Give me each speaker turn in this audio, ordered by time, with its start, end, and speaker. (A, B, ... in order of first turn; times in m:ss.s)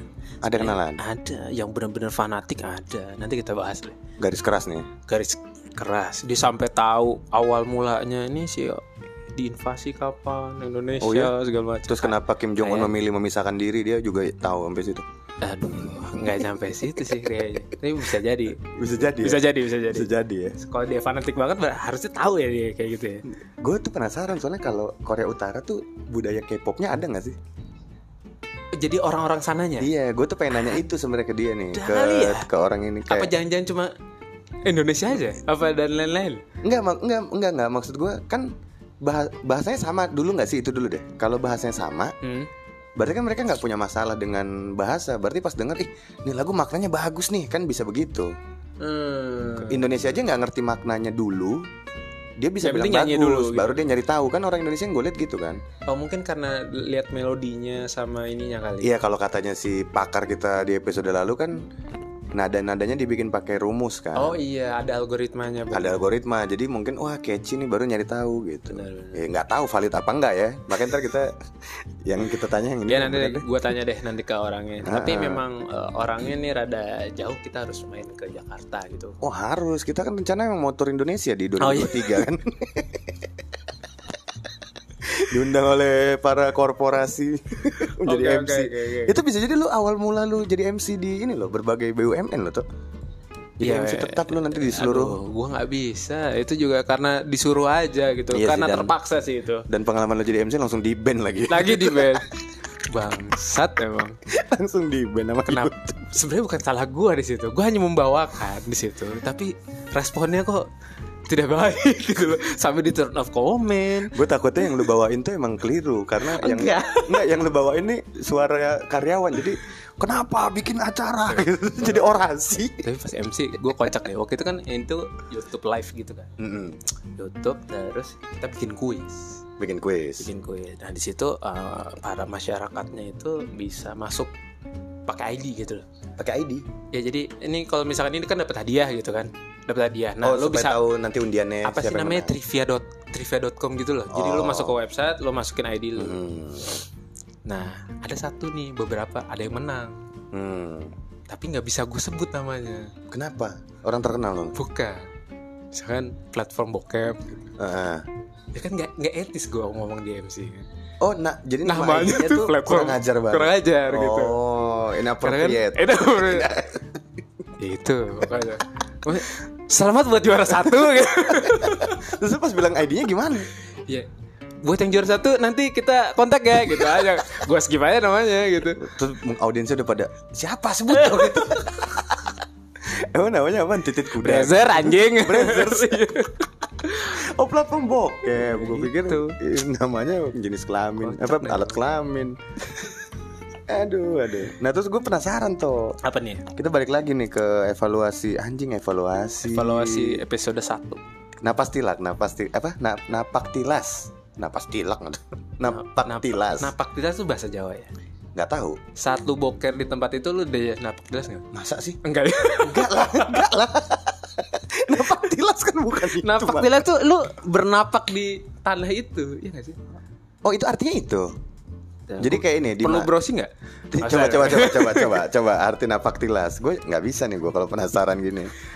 0:00.4-0:01.0 A
0:00.5-0:04.0 B
0:04.2-0:04.9 A
0:05.1-0:08.8 B
0:09.4-0:12.9 B
0:11.0-0:11.4 A
0:11.9-0:15.1 A
0:15.4-0:23.2 B
0:15.7-0:16.4 A
0:17.0-0:17.2 A
0:18.6-0:20.6 A
0:23.6-0:27.4 A
0:28.7-0:29.9 B
0:29.8-0:33.3 A
0:30.6-0:30.8 B
0:31.7-0:32.5 B
0:33.1-0:33.9 B
0:34.6-0:36.4 B
0:36.6-0:42.1 A
0:42.2-0:42.5 B
0:43.0-0:48.3 A
0:48.8-0:49.9 B
0:49.6-0:51.7 A
0:52.4-0:55.6 A
0:52.6-0:53.8 B
0:55.9-0:58.9 B
0:58.8-1:01.6 A
1:02.3-1:04.4 A
1:04.2-1:06.0 B
1:05.7-1:11.4 A
1:08.7-1:09.2 B
1:12.0-1:13.5 A
1:12.9-1:19.2 B
1:14.8-1:15.4 A
1:19.2-1:23.2 A
1:21.6-1:22.2 B
1:25.0-1:32.6 A
1:28.0-1:29.2 B
1:33.6-1:35.2 A
1:33.6-1:39.7 B
1:38.3-1:38.9 A
1:39.7-1:42.2 A
1:41.5-1:42.3 B
1:42.8-1:44.2 B
1:44.3-1:46.1 A
1:45.5-1:50.7 B
1:51.3-1:54.2 B
1:54.1-2:02.8 A
1:56.2-1:57.2 B
2:01.3-2:02.2 B
2:02.8-2:06.3 B
2:06.4-2:06.8 A
2:07.2-2:09.4 B
2:09.6-2:10.3 A
2:10.2-2:14.3 B
2:15.1-2:15.8 B
2:16.2-2:16.7 A
2:16.9-2:20.8 B
2:20.2-2:22.4 A
2:21.6-2:26.2 B
2:24.1-2:24.8 A
2:26.0-2:26.8 A
2:27.5-2:30.0 B
2:30.3-2:30.9 A
2:31.3-2:32.9 B
2:33.1-2:34.6 A
2:34.5-2:35.1 B
2:35.7-2:37.3 B
2:37.6-2:38.1 A
2:38.6-2:40.7 B
2:41.0-2:47.0 A
2:41.6-2:44.4 B
2:45.2-2:46.5 B
2:47.6-2:52.1 B
2:51.3-2:53.5 A
2:54.6-2:58.9 B
2:58.8-3:06.1 A
3:00.9-3:01.7 B
3:04.2-3:07.2 B
3:07.1-3:12.4 A
3:08.3-3:09.4 B
3:11.0-3:11.9 B
3:13.7-3:16.0 A
3:16.0-3:16.5 B
3:16.5-3:20.2 A
3:19.4-3:21.0 B
3:21.4-3:26.7 A
3:25.7-3:27.9 B
3:28.4-3:28.8 A
3:29.0-3:31.5 B
3:31.5-3:32.0 A
3:32.0-3:33.5 B
3:32.6-3:36.7 A
3:36.1-3:39.8 B
3:40.4-3:41.3 A
3:42.1-3:45.2 B
3:42.2-3:43.1 A
3:43.9-3:48.5 A